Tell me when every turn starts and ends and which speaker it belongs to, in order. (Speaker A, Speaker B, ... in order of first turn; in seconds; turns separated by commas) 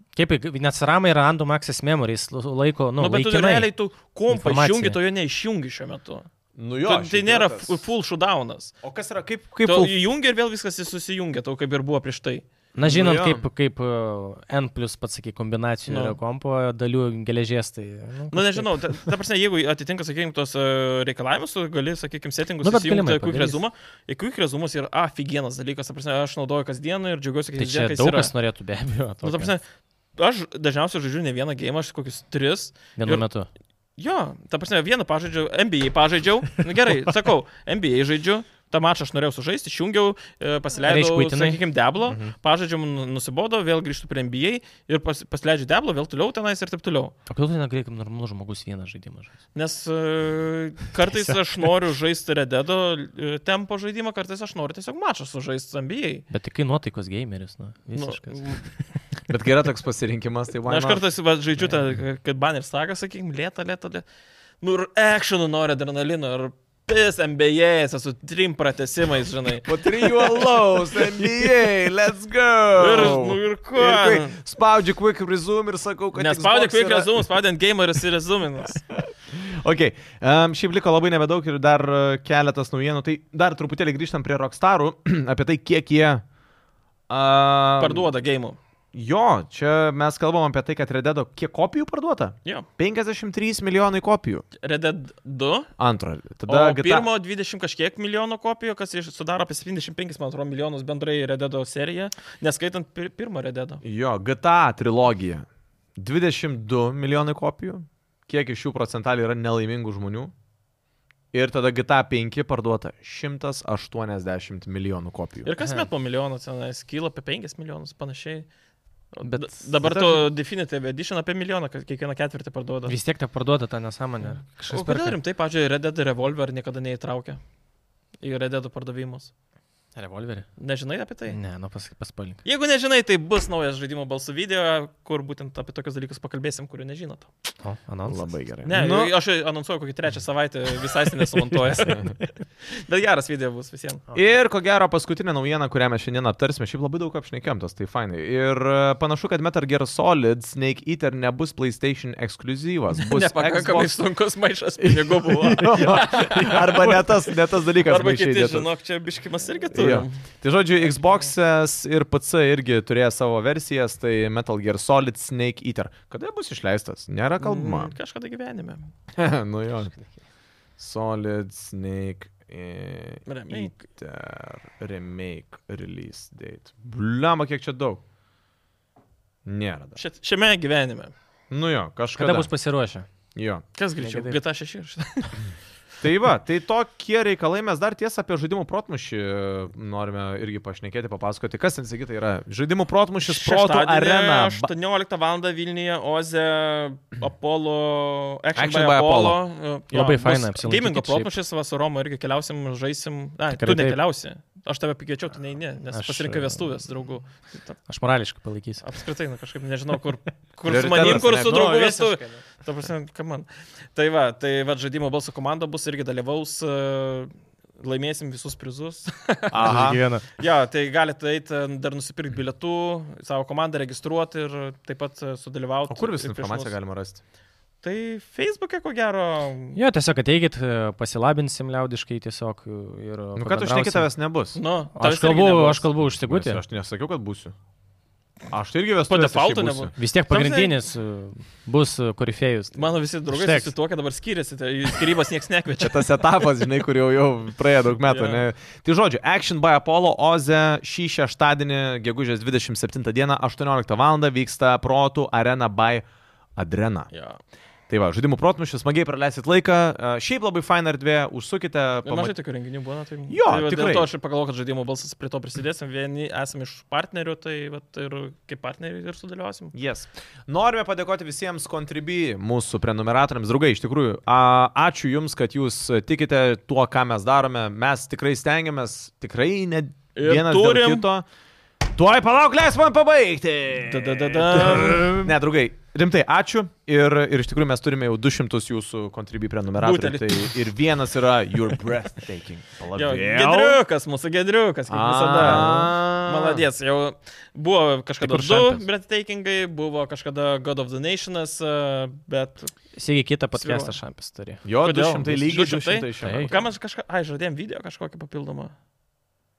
Speaker A: 0.1-3.7, Speaker B: 3.0-6.3, Speaker A: 4.3-5.0, Speaker C: 6.5-7.8, Speaker B: 6.8-8.8, Speaker C: 8.8-9.9, Speaker B: 9.6-12.4, Speaker A: 12.7-19.0, Speaker C: 12.8-13.4, Speaker B: 15.9-16.2, Speaker B: 18.3-28.3, Speaker A: 22.6-23.6, Speaker A: 27.6-29.5, Speaker B: 29.2-29.6, Speaker B: 30.2-33.2, Speaker A: 33.0-33.5, Speaker B: 34.0-47.1, Speaker A: 40.8-42.3, Speaker A: 47.3-49.3, Speaker B: 49.5-56.2, Speaker A: 51.1-51.4, Speaker A: 56.3-58.6, Speaker B: 57.9-58.7, Speaker C: 59.3-61.0, Speaker B: 60.7-64.0, Speaker B: 64.6-71.2, Speaker C: 69.6-77.2, Speaker B: 72.7-74.3, Speaker B: 76.1-78.8, Speaker C: 78.9-86.2, Speaker C: 87.1-88.1, Speaker B: 87.8-88.6, Speaker C: 88.9-94.4, Speaker B: 94.6-95.7, Speaker C: 95.8-97.1, Speaker B: 96.5-103.8, Speaker C: 103.8-105.5, Speaker C: 106.0-110.3, Speaker C: 111.3-115.5, Speaker B: 115.4-118.5, Speaker A: 115.6-115.9, Speaker B: 119.1-123.0, Speaker A: 119.2-119.5, Speaker C: 119.8-120.2, Speaker A: 122.9-125.2, Speaker B: 124.7-127.4, Speaker B: 128.2-129.3, Speaker A: 129.9-130.5, Speaker B: 130.6-131.4, Speaker A: 131.3-132.4, Speaker B: 132.4-137.3, Speaker A: 137.6-138.3, Speaker C: 138.1-139.1, Speaker B: 138.6-142.2, Speaker A: 141.2-142.3, Speaker C: 141.8-142.1, Speaker B: 142.7-144.0, Speaker C: 144.1-154.0, Speaker B: 152.9-160.2, Speaker C: 154.8-158.7, Speaker C: 159.7-167.9, Speaker B: 167.4-168.9, Speaker C: 169.1-169.9, Speaker C: 170.8-178.0, Speaker B: 173.3-173.8, Speaker C: 179.4-180.0, Speaker B: 180.0-181.1, Speaker C: 181.5-182.5, Speaker A: 182.2-183.1, Speaker C: 183.3-183.6, Speaker B: 183.8-185.4, Speaker A: 184.0-184.4, Speaker C: 186.0-194.7, Speaker B: 193.2-207.7, Speaker C: 198.5-199.4, Speaker A: 199.9-201.3, Speaker A: 203.5-204.0, Speaker A: 205.9-206.6, Speaker A: 207.9-208.8, Speaker B: 208.8-219.8, Speaker C: 210.7-211.6, Speaker A: 210.9-212.4, Speaker C: 219.5-220.0, Speaker A: 219.6-220.2, Speaker B: 220.4-226.7, Speaker C: 225.9-227.2, Speaker B: 227.8-229.8, Speaker A: 229.7-234.1, Speaker C: 233.3-234.6, Speaker B: 234.5-235.8, Speaker A: 234.9-236.6, Speaker C: 236.1-237.5, Speaker C: 238.5-239.9, Speaker B: 239.1-240.8, Speaker A: 239.9-243.7, Speaker B: 242.8-246.1, Speaker C: 245.8-256.0, Speaker B: 248.1-248.4, Speaker C: 256.6-257.1, Speaker B: 257.1-257.4, Speaker C: 257.9-262.3, Speaker B: 262.0-269.7, Speaker C: 263.3-264.1, Speaker C: 269.7-281.2, Speaker B: 280.1-281.0, Speaker C: 281.9-293.8, Speaker B: 283.9-285.2, Speaker B: 289.8-290.5, Speaker B: 292.9-302.7, Speaker C: 294.9-296.6, Speaker A: 295.4-295.9, Speaker A: 298.2-298.8, Speaker A: 302.9-304.6, Speaker B: 303.5-303.9, Speaker C: 304.6-306.6, Speaker B: 304.8-308.7, Speaker A: 306.2-306.6